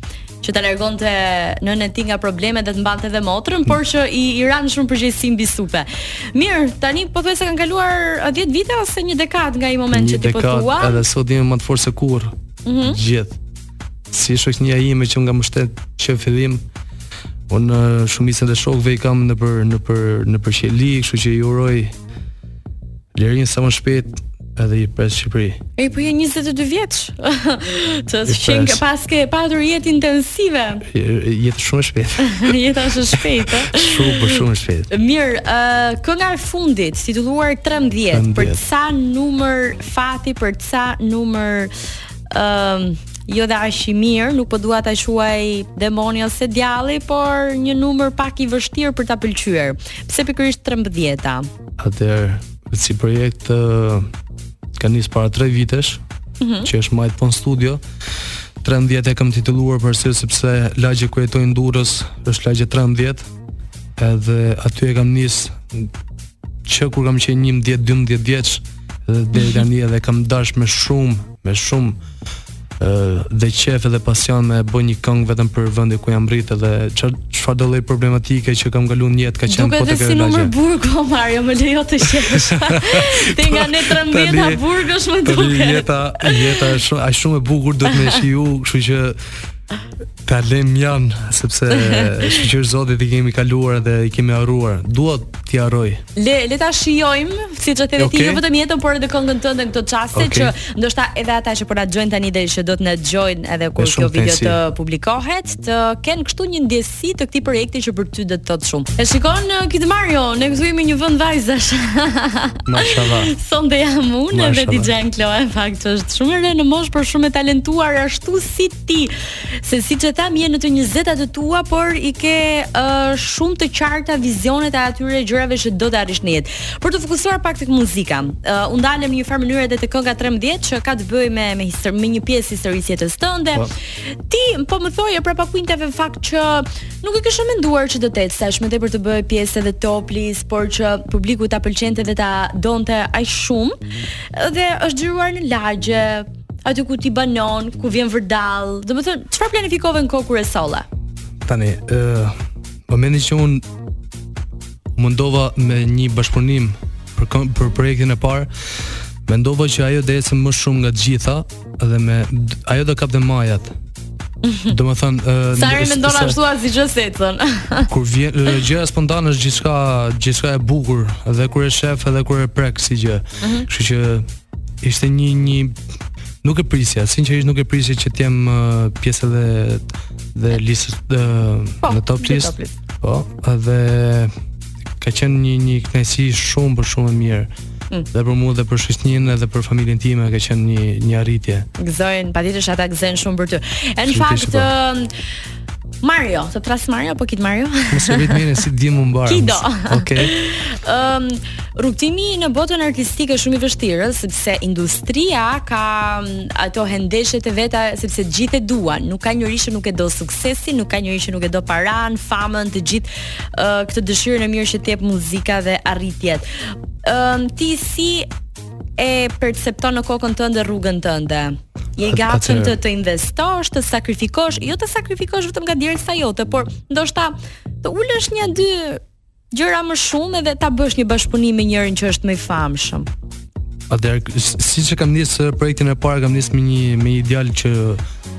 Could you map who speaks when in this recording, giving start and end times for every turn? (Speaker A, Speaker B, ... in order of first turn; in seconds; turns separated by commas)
Speaker A: 0.4-11.0, Speaker B: 9.9-13.3, Speaker A: 12.7-13.0, Speaker B: 14.1-16.6, Speaker B: 17.5-21.9, Speaker B: 23.1-25.6, Speaker A: 25.8-30.9, Speaker B: 28.2-28.8, Speaker B: 30.9-34.9, Speaker A: 32.2-41.7, Speaker B: 38.1-38.6, Speaker A: 42.3-51.5, Speaker B: 51.8-54.0, Speaker B: 54.8-56.0, Speaker A: 56.4-56.7, Speaker B: 56.6-57.8, Speaker B: 58.6-63.2, Speaker B: 64.0-65.9, Speaker B: 66.6-72.0, Speaker A: 69.3-69.6, Speaker B: 72.8-80.5, Speaker A: 79.5-86.8, Speaker B: 82.1-84.7, Speaker B: 85.2-89.2, Speaker A: 87.8-88.2, Speaker B: 90.2-96.0, Speaker A: 91.7-92.4, Speaker A: 96.2-150.8, Speaker B: 98.0-98.4, Speaker B: 100.1-100.5, Speaker B: 103.8-104.6, Speaker B: 112.7-113.3, Speaker B: 114.3-114.9, Speaker B: 151.4-152.3, Speaker B: 152.9-153.6, Speaker B: 154.9-158.5, Speaker B: 159.2-163.7, Speaker A: 164.4-164.7, Speaker B: 164.7-166.4, Speaker A: 165.5-167.9, Speaker B: 167.9-174.3, Speaker A: 173.4-173.7, Speaker B: 174.8-175.7, Speaker B: 176.4-184.3, Speaker A: 181.8-182.7, Speaker B: 185.0-187.5, Speaker B: 188.1-191.7, Speaker A: 191.8-195.1, Speaker B: 194.1-194.7, Speaker A: 196.0-198.4, Speaker B: 197.9-200.3, Speaker A: 199.2-216.4, Speaker A: 217.0-218.3, Speaker A: 219.0-229.0, Speaker B: 222.0-222.7, Speaker A: 229.5-233.1, Speaker B: 233.9-238.0